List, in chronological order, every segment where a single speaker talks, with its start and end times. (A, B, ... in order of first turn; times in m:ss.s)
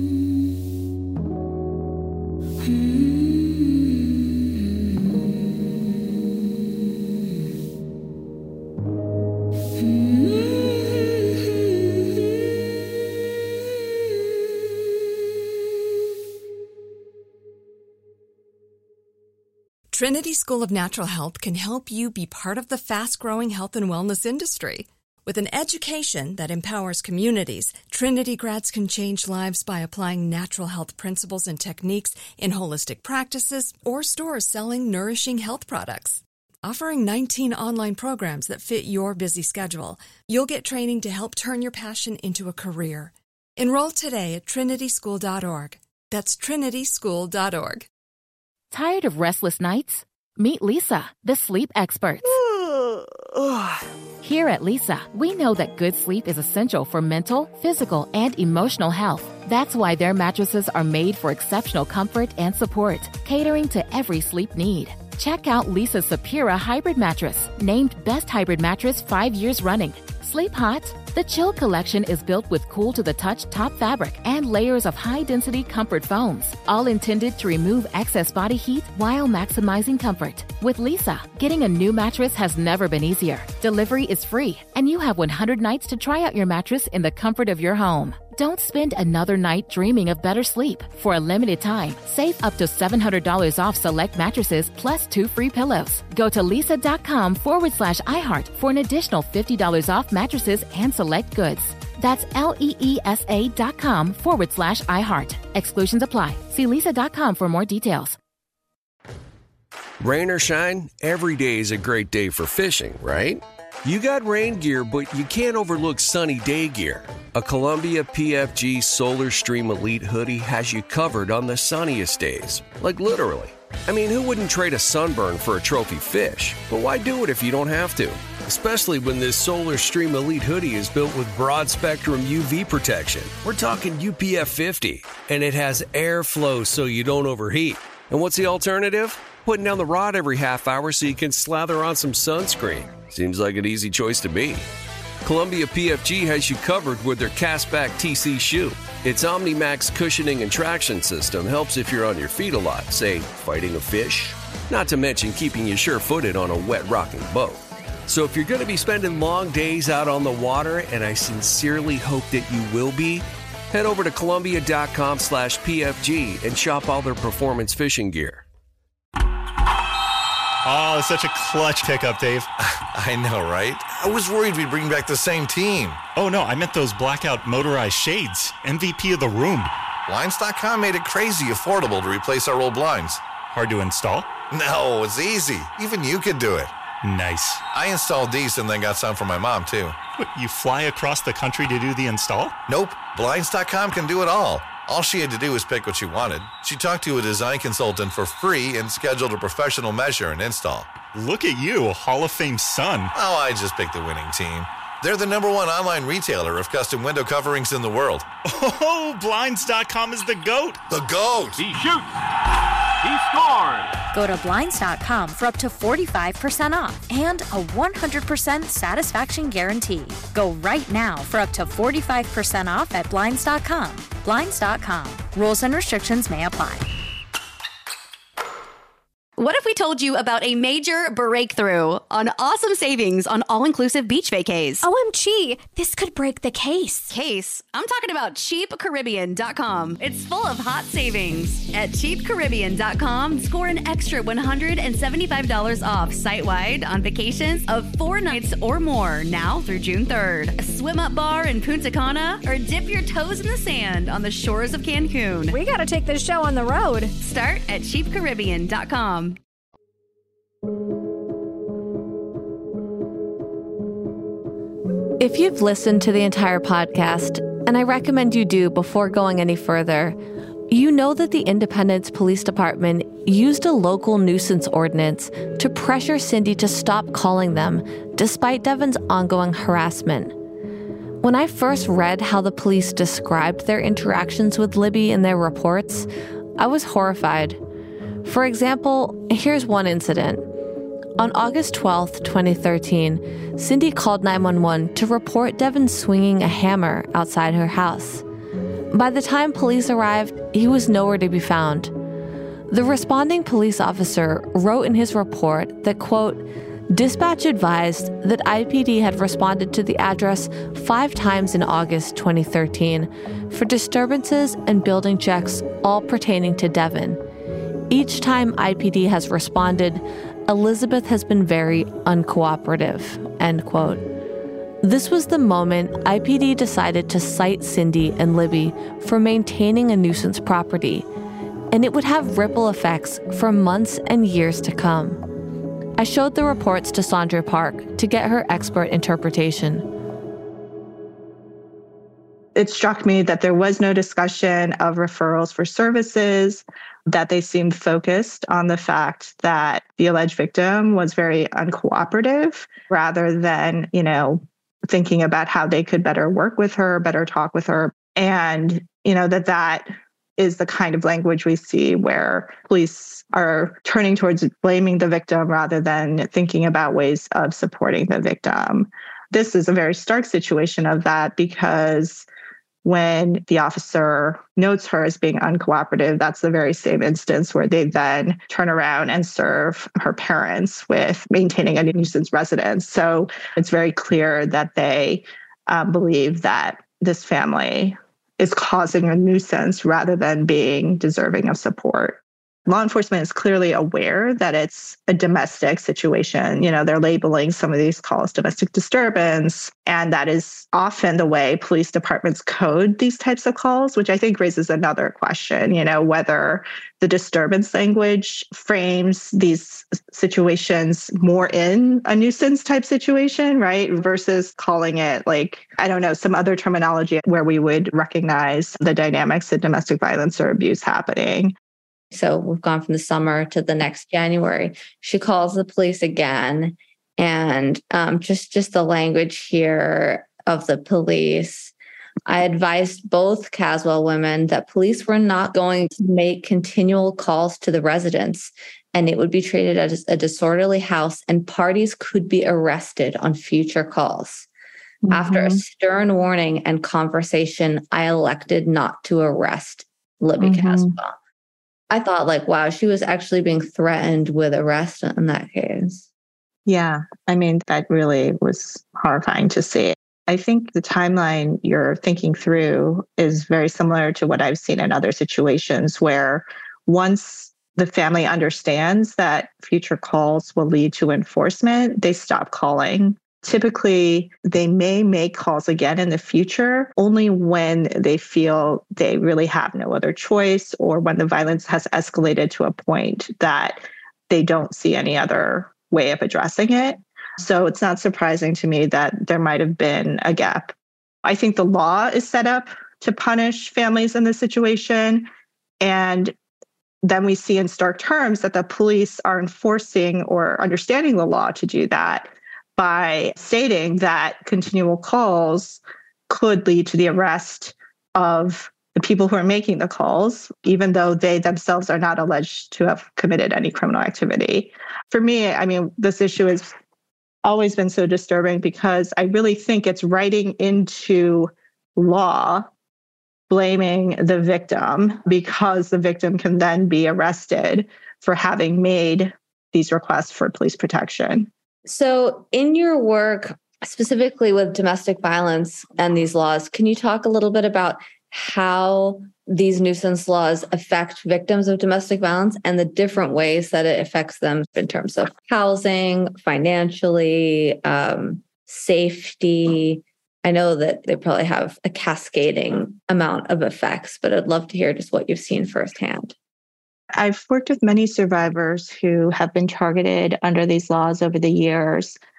0:19.9-0:47.9 A
0:48.7-0:52.4 B
0:54.2-1:48.2 B
1:50.0-2:24.6 C
2:25.2-2:48.4 C
2:50.6-2:52.5 D
2:52.9-2:56.0 E
2:56.1-2:59.7 D
3:00.1-3:03.3 E
3:03.4-3:04.3 D
3:04.5-3:06.7 E
3:07.0-3:07.6 D
3:07.7-3:10.0 E
3:10.2-3:12.6 D
3:12.7-3:20.9 E
3:21.1-3:23.1 D
3:23.2-3:28.3 E
3:28.4-3:30.8 D
3:30.9-3:31.8 E
3:34.1-3:46.9 F
3:49.4-3:54.9 G
3:54.8-3:57.1 H
3:57.1-4:15.6 G
4:15.5-4:17.1 H
4:17.2-4:19.4 G
4:25.2-4:30.2 I
4:30.7-4:40.4 I
4:41.2-4:47.6 I
4:48.2-4:50.5 I
4:51.2-4:58.2 I
4:58.9-5:01.9 I
5:02.7-5:17.2 I
5:17.9-5:24.0 I
5:24.8-5:31.1 I
5:31.7-5:35.2 I
5:36.0-5:39.9 I
5:42.6-6:12.3 J
6:12.8-7:01.5 J
7:02.1-7:11.7 K
7:12.3-7:24.5 K
7:25.0-7:25.6 J
7:25.1-7:31.2 K
7:30.4-7:30.9 J
7:31.9-7:36.1 K
7:36.7-8:10.7 J
8:11.2-8:15.3 J
8:15.8-8:16.3 J
8:17.0-8:36.7 J
8:37.4-8:42.7 J
8:43.5-8:51.5 J
8:51.8-9:16.4 K
9:17.2-9:22.2 J